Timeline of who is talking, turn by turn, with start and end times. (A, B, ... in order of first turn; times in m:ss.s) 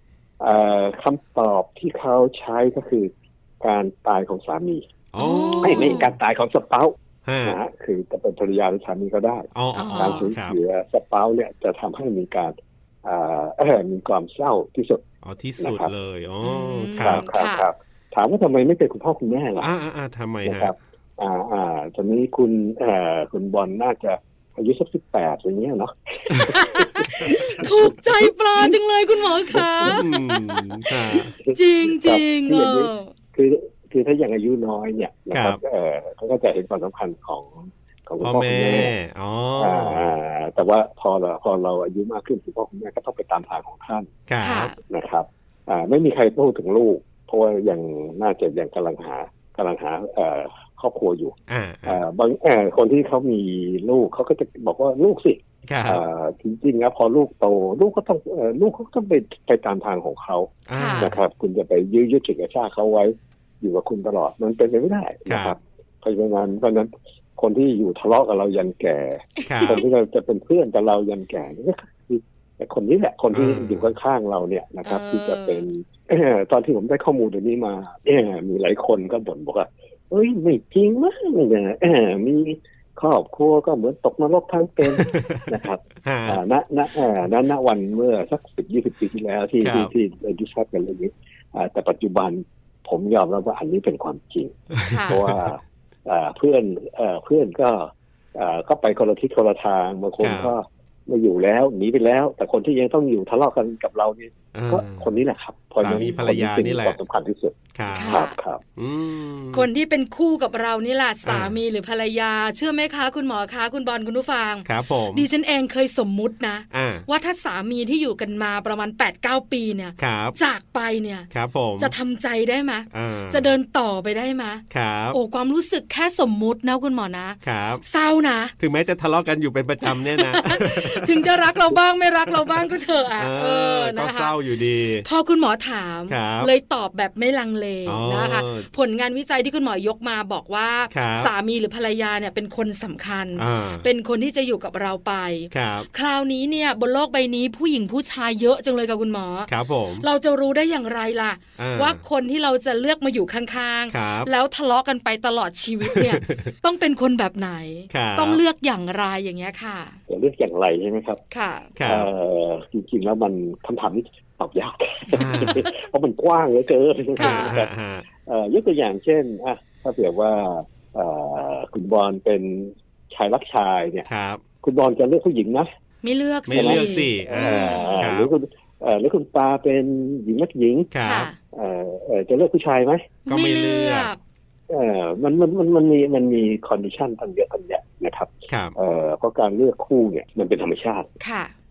0:00.4-0:04.8 A
0:05.1-0:06.1 B
0:05.2-0:06.1 C
0:05.6-0:15.0 A
0:07.2-0:07.6 B
0:09.5-0:10.6 B
0:09.7-0:10.3 C
0:15.2-0:17.3 B
0:15.6-0:15.9 A
0:16.4-0:17.7 C
0:17.0-0:19.7 A
0:19.6-0:20.7 B
0:20.4-0:27.7 A
0:26.5-0:30.9 C
0:29.5-0:29.8 A
0:29.8-0:31.3 B
0:31.3-0:38.9 A
0:31.4-0:33.1 C
0:35.3-0:35.6 B
0:38.2-0:40.0 B
0:39.6-0:44.1 A
0:44.3-0:44.7 B
0:44.4-0:44.7 C
0:44.9-1:48.6 A
0:51.5-0:52.0 B
0:55.6-0:56.0 B
1:00.7-1:01.2 B
1:00.7-1:01.1 C
1:05.3-1:05.6 B
1:09.4-1:09.8 C
1:09.5-1:09.8 B
1:13.3-1:13.9 B
1:14.8-1:15.6 C
1:25.0-1:25.4 B
1:26.0-1:26.4 B
1:29.6-1:29.9 B
1:34.8-1:35.2 C
1:34.9-1:35.4 B
1:40.2-1:40.5 B
1:44.5-1:45.0 B
1:45.8-1:47.0 B
1:45.9-1:46.2 C
1:47.7-1:48.2 B
1:47.9-1:48.4 C
1:48.8-1:49.7 B
1:49.5-2:08.5 C
1:51.2-1:51.6 B
1:54.6-1:55.3 B
1:56.7-1:57.0 B
2:00.0-2:00.4 B
2:01.3-2:01.9 B
2:02.9-2:03.5 B
2:04.7-2:05.2 B
2:07.4-2:07.8 B
2:08.6-2:11.7 B
2:09.8-2:14.3 C
2:12.3-2:15.0 B
2:15.0-2:29.5 C
2:16.1-2:16.5 B
2:17.8-2:18.7 B
2:20.9-2:21.3 B
2:23.4-2:23.8 B
2:25.5-2:25.9 B
2:29.5-2:30.1 B
2:30.0-2:40.0 C
2:31.6-2:32.0 B
2:33.9-2:34.3 B
2:35.8-2:36.5 B
2:37.9-2:38.4 B
2:40.1-2:41.2 A
2:41.3-2:41.7 C
2:41.8-2:42.1 B
2:41.8-2:47.7 A
2:45.1-2:45.6 B
2:45.3-2:45.6 C
2:47.2-2:47.6 C
2:47.2-2:48.0 B
2:48.2-2:54.0 A
2:54.1-2:54.4 B
2:54.6-2:55.7 A
2:56.0-2:58.0 C
2:56.5-2:58.3 B
2:56.5-3:00.9 A
3:00.9-3:01.3 B
3:01.0-3:01.4 C
3:01.5-3:03.2 A
3:03.2-3:04.2 C
3:03.3-3:04.1 B
3:04.7-3:11.1 A
3:08.5-3:08.8 B
3:11.2-3:11.5 C